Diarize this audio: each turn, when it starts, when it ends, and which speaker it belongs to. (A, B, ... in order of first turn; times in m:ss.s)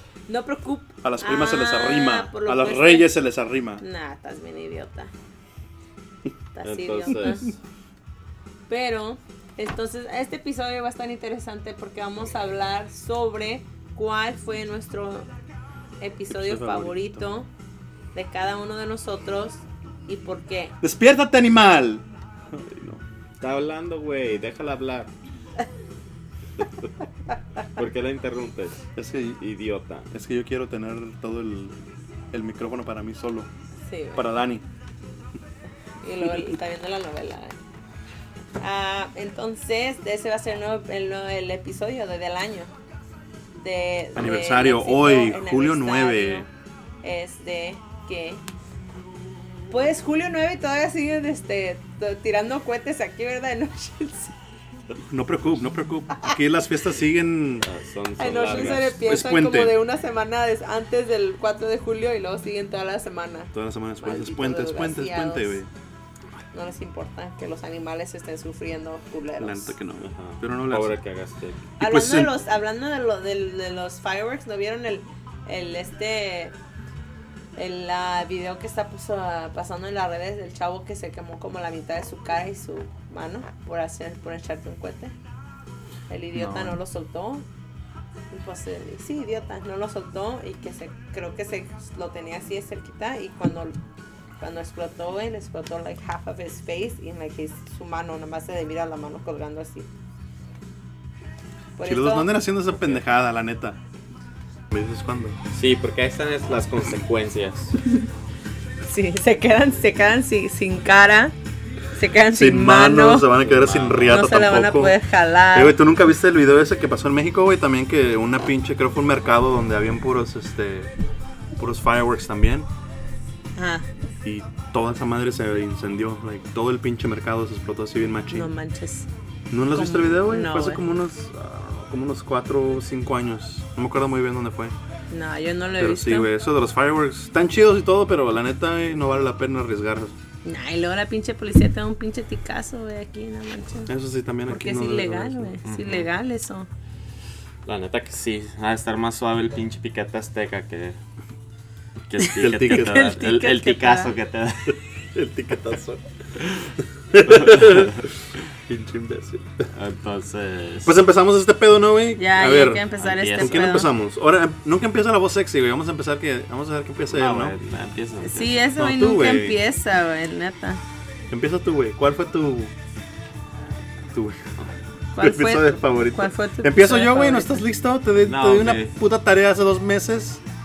0:00.3-0:03.1 A
0:01.0-0:03.8 B
0:03.8-0:05.1 A
0:06.5-0:07.5 A
0:06.6-0:07.6 C
0:08.7-0:15.3 A
0:16.0-0:17.5 A
0:16.3-0:17.2 B
0:18.1-0:20.7 A
0:20.8-0:23.0 B
0:23.4-0:25.1 C
0:27.7-0:28.8 C
0:29.0-0:29.4 B
0:29.4-0:30.1 C
0:30.1-0:33.5 B
0:33.8-0:34.3 A
0:34.2-0:34.6 B
0:36.0-0:37.6 A
0:36.2-0:36.6 B
0:38.6-0:42.7 A
0:43.6-0:46.4 A
0:44.1-0:46.5 B
0:47.0-0:48.4 A
0:49.7-0:54.4 A
0:55.0-0:57.6 B
0:57.6-0:59.0 C
0:58.2-1:05.6 A
0:59.0-0:59.8 B
1:03.5-1:05.7 B
1:06.5-1:09.7 A
1:09.4-1:11.0 B
1:10.0-1:11.7 C
1:11.8-1:16.5 A
1:11.8-1:12.3 B
1:17.6-1:25.1 A
1:26.1-1:27.4 A
1:26.3-1:26.8 B
1:28.3-1:33.7 A
1:34.4-1:39.9 A
1:41.8-1:42.3 A
1:41.8-1:43.8 B
1:42.7-1:43.0 C
1:44.7-1:45.4 B
1:45.5-1:47.8 C
1:48.8-1:51.3 A
1:52.0-1:53.3 A
1:52.3-1:55.0 B
1:53.4-1:54.2 C
1:54.1-1:55.8 A
1:55.5-2:00.9 B
2:01.6-2:02.7 B
2:03.6-2:03.9 A
2:04.2-2:08.5 B
2:08.3-2:09.1 A
2:09.5-2:14.7 B
2:09.7-2:10.8 A
2:15.1-2:16.3 A
2:15.8-2:20.1 B
2:20.4-2:23.9 A
2:23.9-2:25.5 B
2:24.5-2:26.7 A
2:25.6-2:26.1 C
2:27.6-2:31.0 C
2:32.1-2:34.8 C
2:32.4-2:33.1 B
2:32.5-2:34.1 A
2:35.1-2:36.0 B
2:36.8-2:38.1 B
2:37.4-2:38.0 C
2:38.7-2:39.6 B
2:39.7-2:40.9 C
2:40.8-2:47.6 B
2:42.2-2:43.9 A
2:43.0-2:43.7 C
2:47.1-2:48.7 C
2:48.2-2:50.8 A
2:48.8-2:49.6 B
2:51.3-2:52.7 B
2:54.1-2:54.5 B
2:55.2-2:57.6 A
2:55.2-3:00.4 B
2:58.2-2:59.0 C